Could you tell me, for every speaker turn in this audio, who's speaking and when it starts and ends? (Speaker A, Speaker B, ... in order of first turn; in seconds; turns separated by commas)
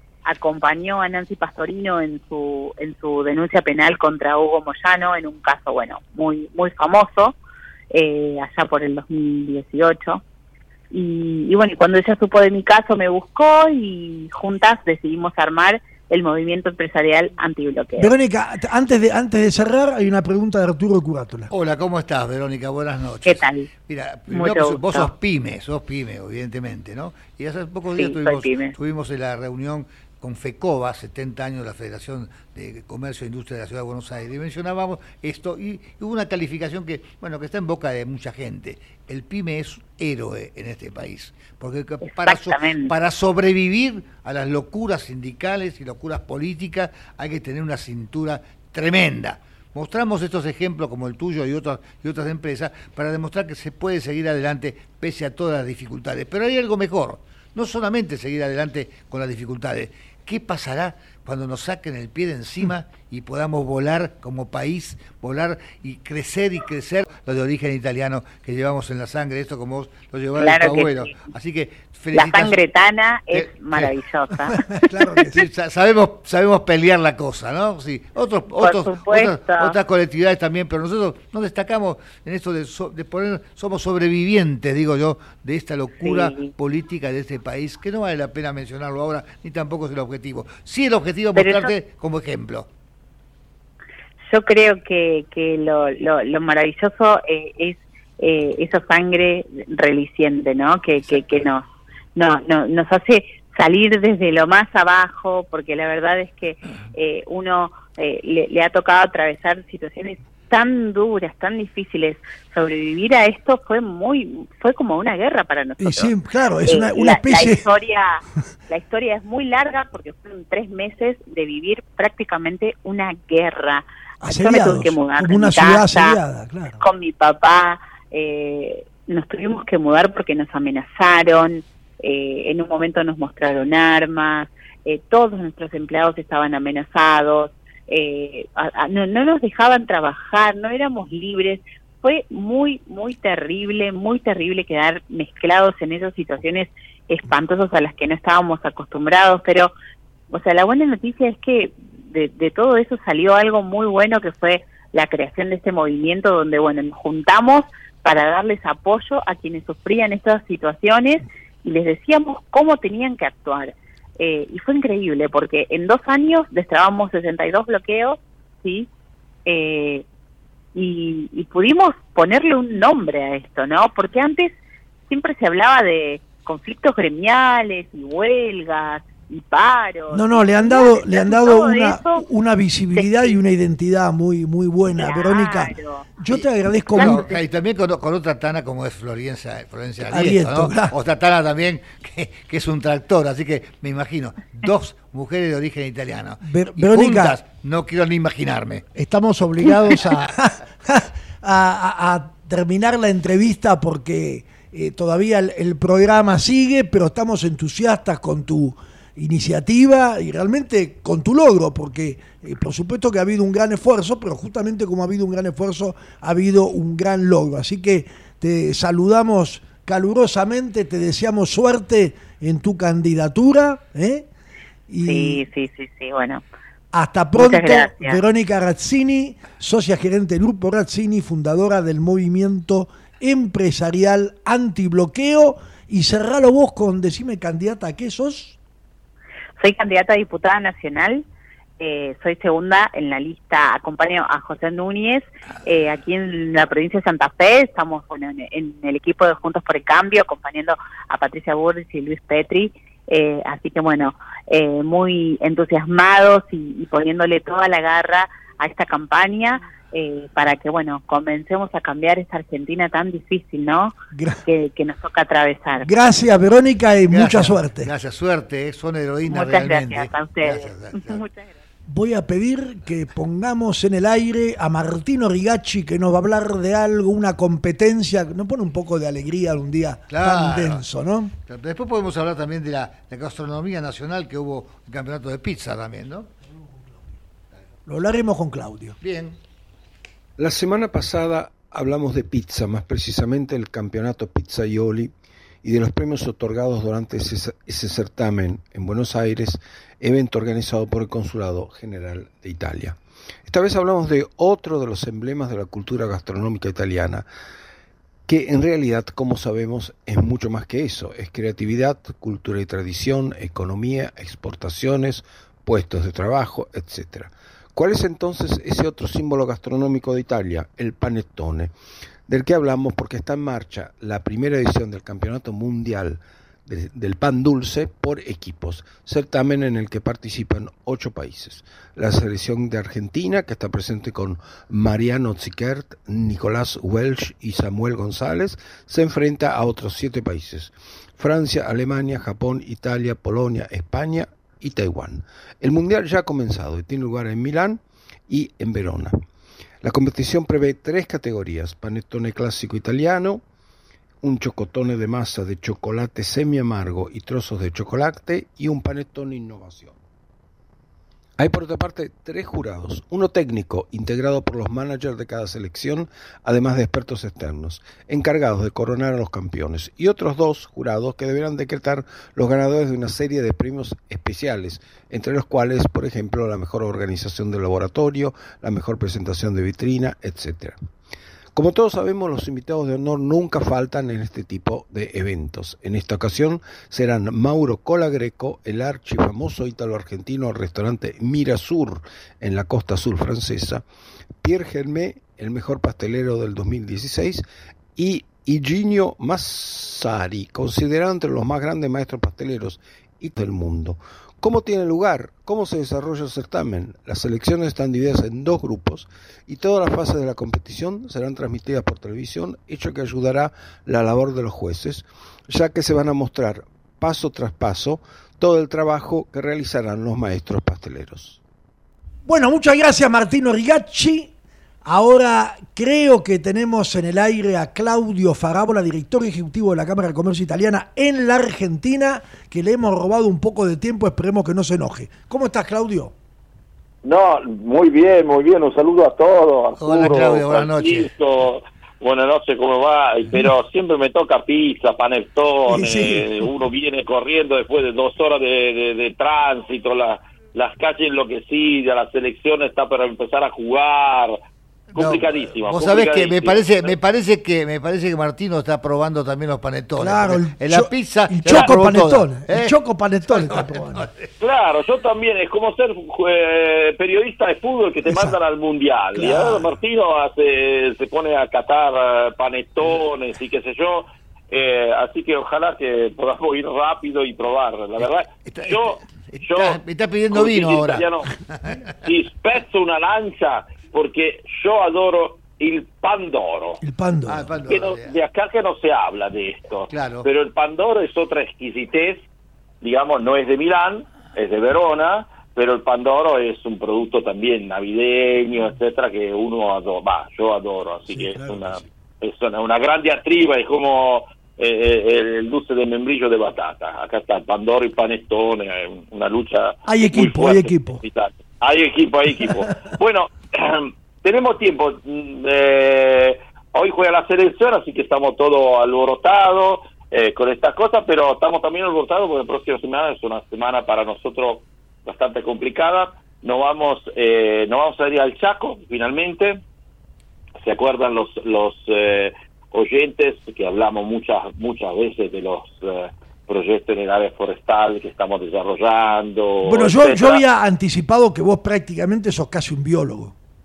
Speaker A: 0.3-7.3, Speaker A: 7.9-10.2, Speaker A: 10.9-18.1, Speaker B: 18.0-21.5, Speaker C: 21.5-72.6, Speaker A: 23.2-23.7, Speaker A: 24.3-25.1, Speaker A: 27.9-28.8, Speaker A: 42.0-42.9, Speaker A: 70.4-71.3, Speaker A: 72.1-74.6, Speaker C: 73.3-73.9, Speaker B: 74.8-75.4, Speaker C: 75.3-92.7, Speaker A: 78.6-79.8, Speaker A: 86.0-86.5, Speaker A: 91.3-91.7, Speaker A: 94.2-101.6, Speaker A: 102.2-116.1, Speaker B: 115.8-117.6, Speaker A: 116.7-126.2, Speaker B: 124.2-126.8, Speaker A: 126.8-149.7, Speaker A: 150.3-168.9, Speaker A: 169.5-170.0, Speaker A: 170.8-174.5, Speaker A: 175.1-182.2, Speaker B: 180.1-187.3, Speaker A: 182.9-183.3, Speaker A: 185.0-186.2, Speaker C: 186.3-198.9, Speaker A: 186.9-187.4, Speaker B: 190.1-191.0, Speaker B: 196.4-197.4, Speaker B: 198.9-224.3, Speaker C: 199.6-200.2, Speaker B: 224.9-225.4, Speaker A: 225.0-226.4, Speaker B: 226.9-238.6, Speaker A: 227.4-228.2, Speaker A: 239.6-241.2, Speaker A: 241.8-263.9, Speaker B: 264.1-264.4, Speaker A: 264.5-265.9, Speaker B: 265.8-267.9, Speaker C: 267.1-271.3, Speaker A: 269.3-271.5, Speaker B: 271.9-281.3, Speaker C: 280.1-280.8, Speaker C: 281.5-286.3, Speaker B: 287.9-289.0, Speaker C: 289.0-289.4, Speaker D: 290.4-295.1, Speaker D: 295.6-307.3, Speaker D: 308.3-321.7, Speaker D: 322.3-349.2, Speaker D: 349.8-353.4, Speaker D: 354.2-359.9, Speaker D: 361.4-380.8, Speaker D: 381.5-393.8, Speaker D: 394.4-397.4, Speaker D: 398.0-421.4, Speaker B: 422.2-424.3, Speaker B: 424.8-436.1, Speaker E: 437.1-454.4, Speaker C: 439.8-441.1, Speaker B: 445.7-446.3, Speaker E: 454.9-456.9, Speaker C: 454.9-462.8, Speaker B: 460.0-464.1, Speaker C: 463.3-464.3, Speaker E: 464.4-481.3, Speaker B: 468.1-468.4, Speaker B: 469.1-469.7, Speaker C: 478.0-481.9, Speaker E: 482.0-486.8, Speaker B: 486.8-487.6, Speaker C: 487.3-488.2, Speaker E: 487.7-492.3, Speaker C: 489.9-490.3, Speaker E: 492.8-529.6, Speaker B: 501.1-501.8, Speaker B: 509.9-511.0, Speaker E: 530.6-540.4, Speaker B: 539.6-543.3